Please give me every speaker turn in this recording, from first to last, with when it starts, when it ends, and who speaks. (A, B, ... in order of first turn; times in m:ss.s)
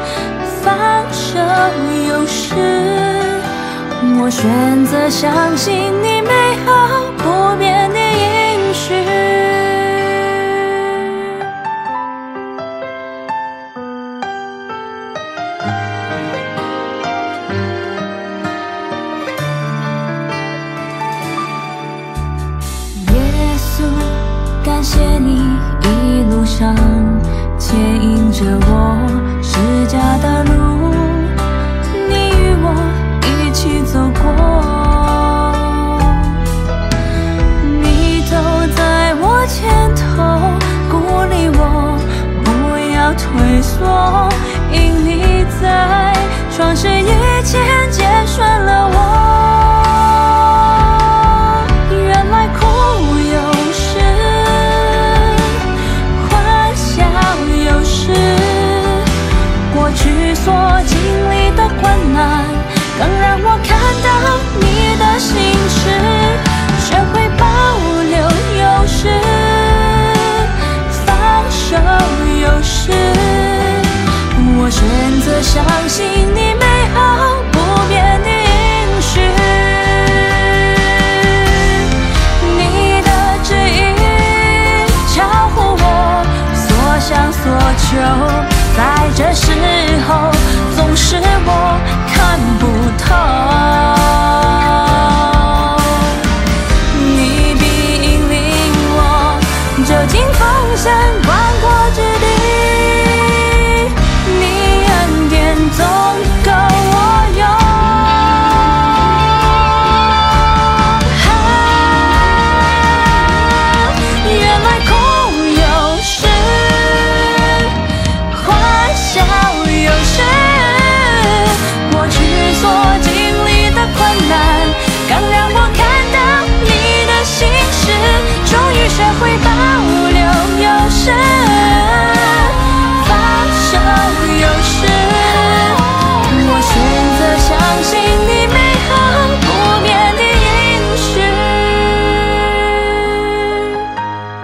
0:00.4-0:03.4 A
0:04.0-0:10.2 A
0:23.0-0:31.3 A
0:31.9-0:36.0 A
0:37.6-0:50.2 A
0:51.8-0:55.5 A
0:56.1-0:59.1 A
0:59.7-1:10.3 A
1:10.9-1:20.5 A
1:21.4-1:21.7 A
1:22.4-1:36.0 A
1:36.9-1:48.3 A
1:51.0-1:57.7 A
1:58.3-2:22.4 A